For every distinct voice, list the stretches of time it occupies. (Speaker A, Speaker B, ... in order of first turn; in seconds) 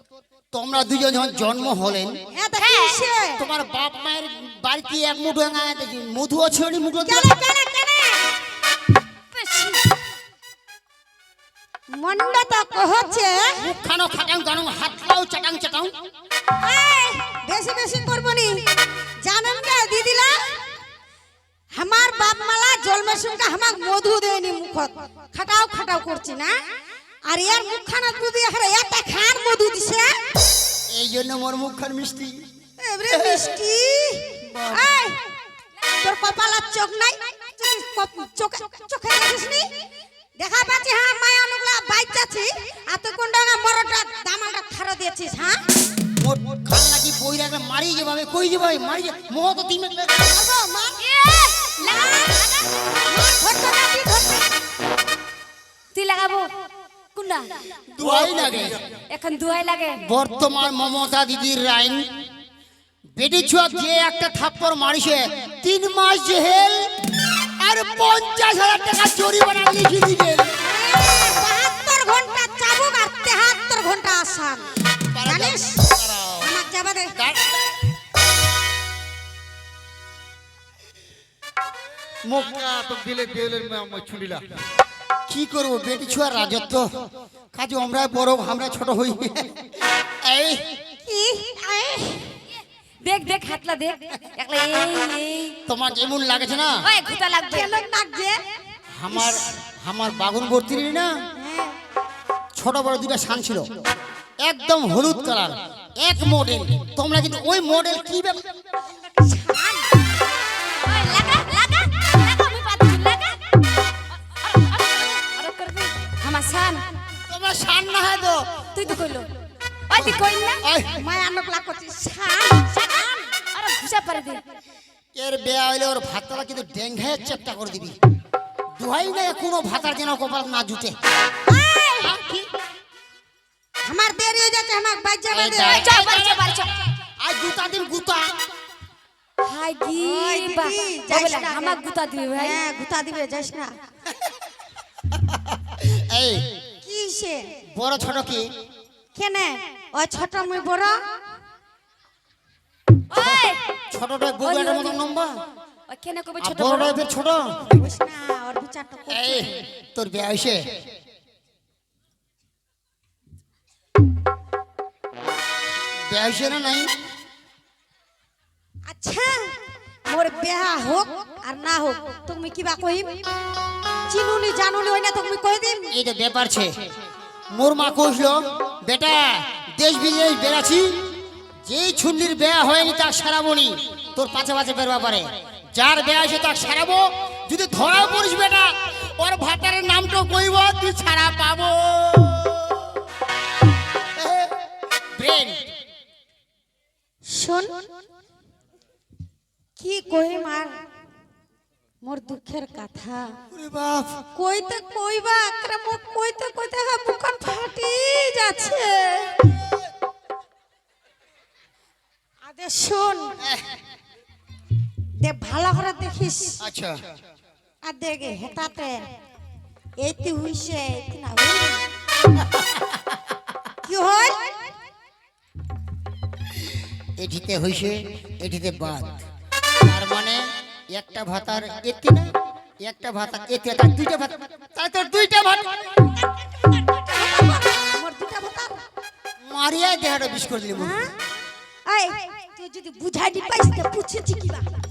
Speaker A: 0.5-2.1, 3.4-7.3, 13.6-15.9, 30.9-32.4, 33.1-33.5, 34.5-34.9, 46.2-50.3, 57.9-58.9, 60.0-62.0, 63.2-66.9, 67.6-70.5, 75.1-76.5, 77.2-77.8, 82.3-84.4, 85.3-86.9, 87.5-89.5, 90.2-90.6, 95.7-96.8, 99.0-101.1, 102.6-103.8, 104.4-108.4, 117.3-118.6, 120.0-120.9, 125.2-128.0, 128.8-130.9, 132.0-132.5, 135.3-136.4, 137.2-138.3, 145.8-146.4, 147.7-148.5, 153.1-155.3, 156.4-157.5, 159.1-160.7, 166.1-166.9, 175.9-176.7, 177.5-181.0, 181.7-192.9, 194.2-194.5, 195.2-195.7, 203.5-204.2, 216.6-217.0, 222.4-222.7, 227.2-229.2, 229.8-232.3, 232.8-235.9, 239.5-240.9
Speaker B: 2.3-3.4, 7.0-8.3, 11.9-13.4, 16.6-18.6, 19.2-20.4, 21.8-26.5, 27.3-30.2, 32.8-35.1, 36.0-39.7, 40.4-45.6, 50.2-51.0, 53.0-54.5, 70.7-74.7, 75.2-75.8, 76.4-77.1, 91.0-92.3, 97.5-98.4, 101.3-101.8, 109.2-109.9, 121.0-122.7, 131.5-132.1, 133.8-135.8, 139.8-141.8, 142.3-143.7, 146.8-147.5, 149.1-151.0, 157.7-159.5, 168.9-169.5, 170.1-173.2, 174.1-175.9, 197.3-197.8, 199.8-200.7, 202.0-203.3, 204.3-209.3, 212.4-213.3, 215.2-216.6, 217.8-218.9, 220.0-221.8, 223.8-224.4, 236.9-238.8, 240.7-241.1, 241.9-244.7
Speaker C: 2.6-3.0, 9.3-9.8, 51.0-52.7, 55.9-56.5, 57.1-57.5, 59.1-60.0, 93.0-95.5, 96.8-97.7, 110.8-113.4, 114.5-116.8, 118.7-119.3, 119.9-120.6, 122.7-124.4, 135.7-136.7, 139.5-142.6, 153.1-153.6, 154.4-155.0, 155.9-157.0